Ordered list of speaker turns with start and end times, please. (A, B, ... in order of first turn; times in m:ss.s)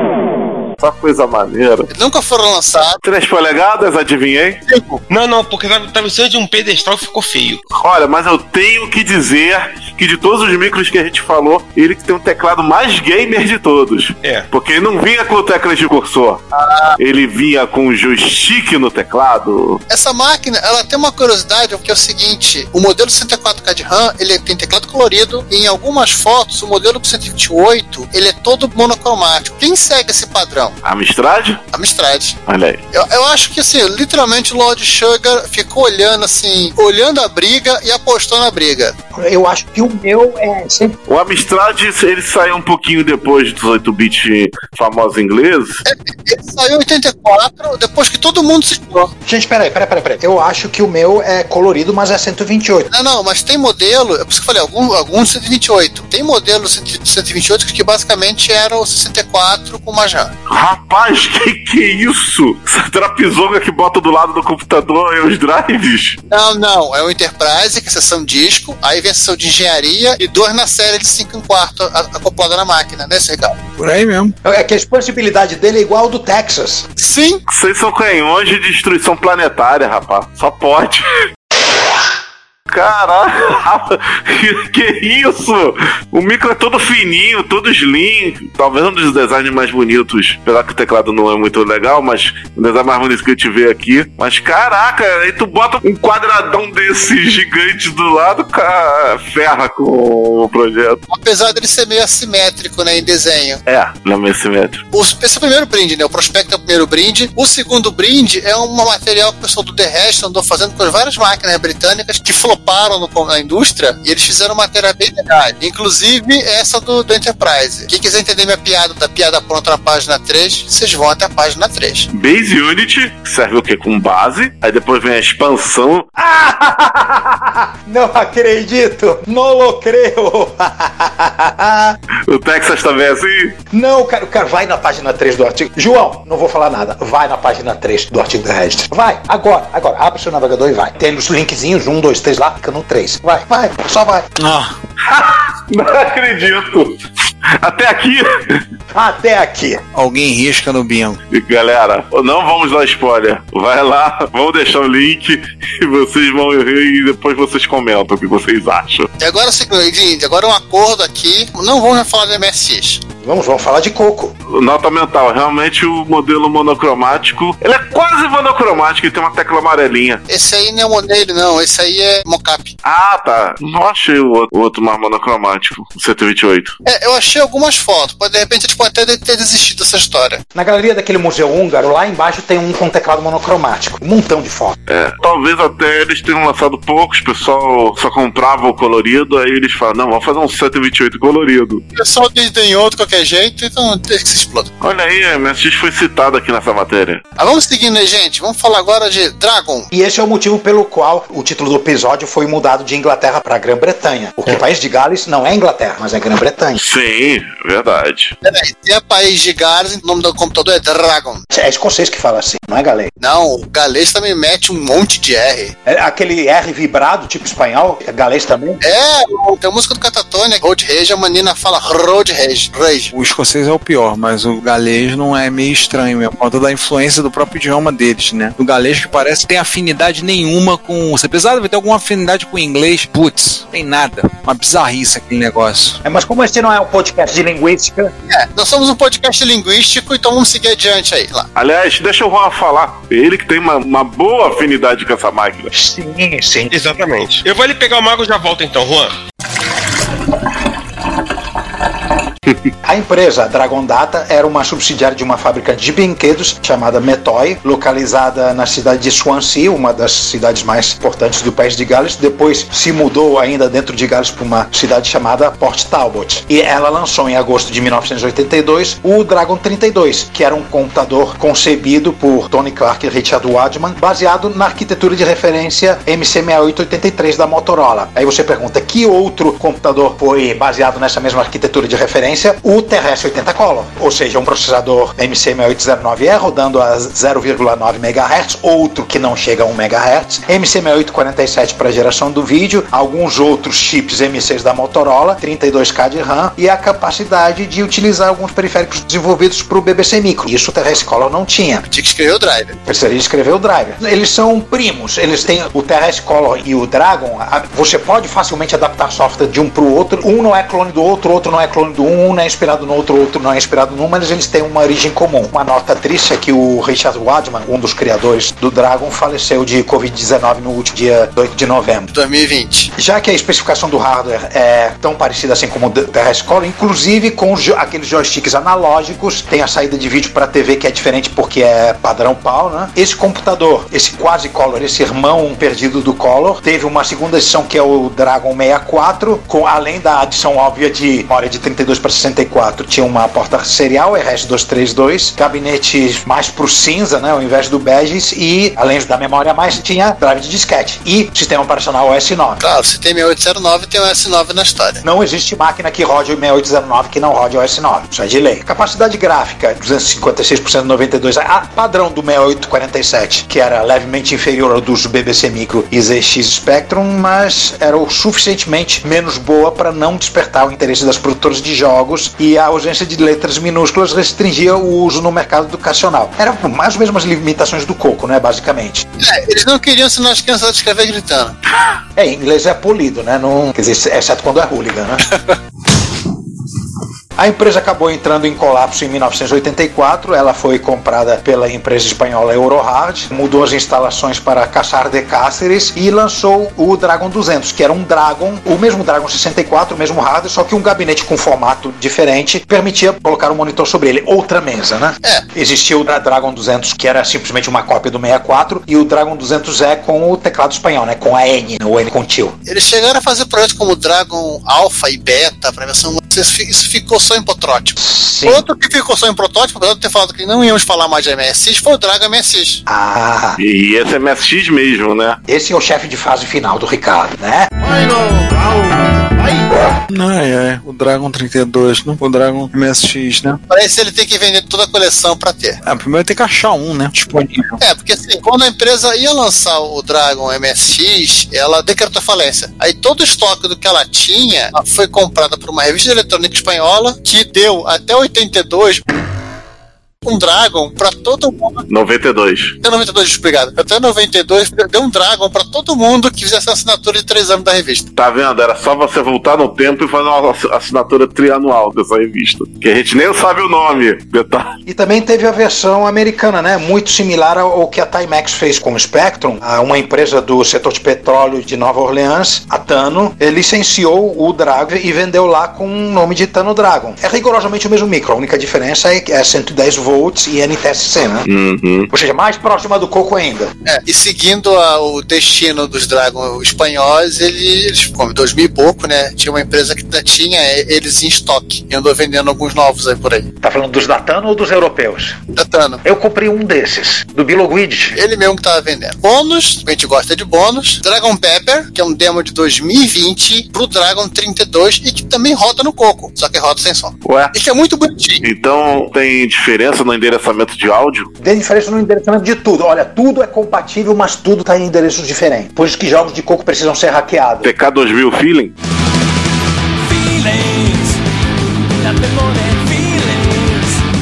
0:00.8-0:01.9 A
0:01.9-0:03.0 B
0:03.0-0:04.6 A
0:04.7-0:05.0 B
0:05.1-0:07.6 C
0:07.7-0:16.4 A
0:14.2-0:14.5 C
0:16.5-0:17.0 B
0:17.0-0:19.8 A
0:19.9-0:30.8 B
0:30.8-0:31.6 A
0:31.7-0:32.4 B
0:32.5-0:32.8 A
0:32.9-0:39.0 B
0:39.1-0:41.0 D
0:41.1-0:45.8 A
0:45.8-0:49.1 B
0:49.2-0:52.9 D
0:52.9-1:00.3 B
1:00.5-1:06.2 A
1:06.3-1:13.6 B
1:13.8-1:14.4 E
1:14.4-1:16.9 D
1:17.0-1:17.4 B
1:17.5-1:21.1 A
1:22.7-1:41.0 A
1:41.1-1:43.6 B
1:43.7-1:44.8 A
1:44.9-2:02.1 B
2:02.1-2:06.1 A
2:06.2-2:12.0 D
2:12.3-2:13.6 A
2:13.7-2:24.3 D
2:24.4-2:24.7 E
2:25.1-2:27.0 A
2:27.5-2:28.6 A
2:28.9-2:29.8 D
2:29.9-2:31.2 E
2:31.3-2:39.1 A
2:39.2-2:43.0 B
2:43.2-2:44.3 D
2:44.5-2:50.2 A
2:50.3-2:52.8 B
2:52.8-2:56.8 A
2:56.8-3:00.4 B
3:00.6-3:04.8 D
3:04.9-3:11.8 A
3:11.9-3:14.7 B
3:14.8-3:17.2 A
3:17.4-3:19.9 B
3:19.9-3:26.8 D
3:26.8-3:28.4 A
3:28.4-3:31.4 B
3:31.5-3:33.1 D
3:33.2-3:35.7 B
3:35.9-3:38.8 D
3:38.8-3:43.1 B
3:43.1-3:56.0 E
3:56.0-3:58.1 D
3:58.3-4:01.5 B
4:01.6-4:05.7 A
4:05.7-4:06.7 D
4:06.7-4:09.2 C
4:12.8-5:01.9 D
5:01.9-5:02.8 B
5:02.9-5:22.1 D
5:22.1-5:22.9 B
5:23.0-5:52.6 D
5:52.6-5:55.0 B
5:55.0-6:19.0 D
6:19.2-6:21.6 B
6:22.2-6:25.2 D
6:27.4-6:52.6 D
6:52.7-7:02.8 B
6:58.0-6:58.6 D
7:02.9-7:03.6 D
7:03.6-7:05.4 A
7:05.5-7:07.7 D
7:10.1-7:13.6 E
7:13.7-7:15.8 B
7:15.8-7:17.8 E
7:17.8-7:29.0 B
7:30.2-7:31.8 B
7:31.9-7:32.8 A
7:32.8-7:38.1 B
7:38.2-7:44.8 A
7:44.9-8:01.5 D
8:01.5-8:02.1 A
8:02.1-8:03.7 D
8:03.8-8:13.5 B
8:13.6-8:15.4 D
8:15.5-8:16.0 B
8:16.0-8:18.2 D
8:18.1-8:28.4 B
8:27.2-8:27.5 A
8:28.4-8:31.3 A
8:31.4-8:37.7 D
8:37.6-8:38.7 A
8:40.1-8:41.2 F
8:42.0-8:44.0 F